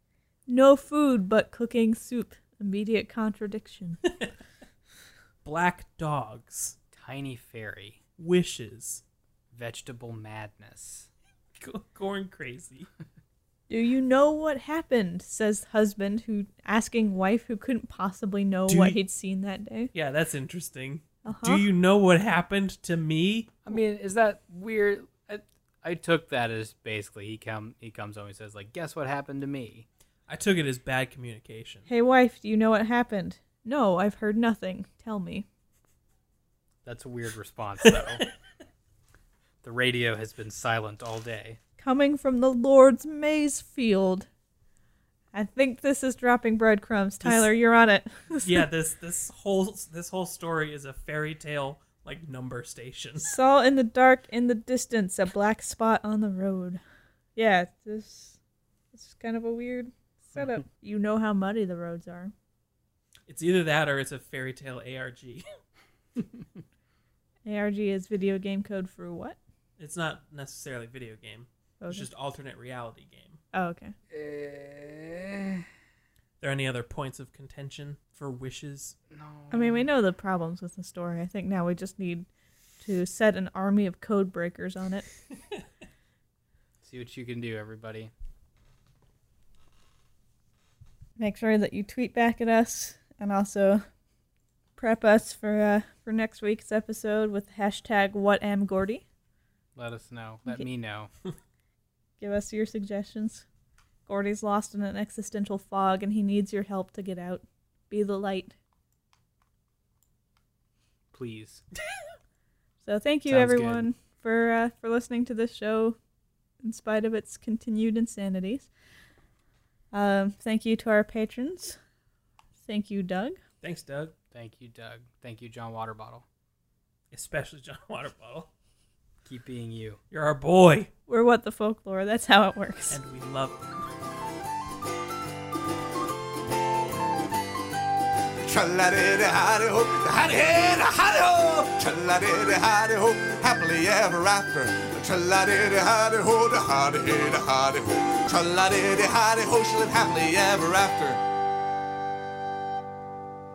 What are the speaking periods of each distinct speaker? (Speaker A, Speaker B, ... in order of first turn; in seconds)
Speaker A: 0.5-4.0, 13.7-19.9, 21.2-21.7, 31.9-35.5, 41.8-44.3, 45.3-48.7, 53.2-56.8, 57.4-58.4, 58.9-62.3, 67.4-69.4, 71.8-72.1, 73.5-73.9, 79.5-82.3, 82.8-85.1, 91.2-93.8, 94.8-99.0, 102.2-103.4, 104.1-108.5, 112.8-116.0, 116.6-118.7, 119.9-121.8, 122.7-123.4, 131.1-133.0
Speaker B: 5.4-6.7, 8.2-9.0, 11.6-12.9, 18.7-19.0, 19.9-23.7, 30.3-31.9, 47.2-47.5, 48.4-53.4, 63.3-65.4, 69.8-73.4, 76.4-79.0, 123.6-124.1, 127.1-128.5, 130.1-130.9, 132.9-133.9
Speaker C: 6.9-8.0, 9.5-11.1, 23.6-29.9, 36.8-38.2, 39.6-41.6, 74.1-75.6, 79.1-79.9, 86.8-88.1, 99.8-101.1, 111.1-111.6, 113.3-113.9, 124.3-126.2, 129.2-130.0
Speaker D: 138.4-151.2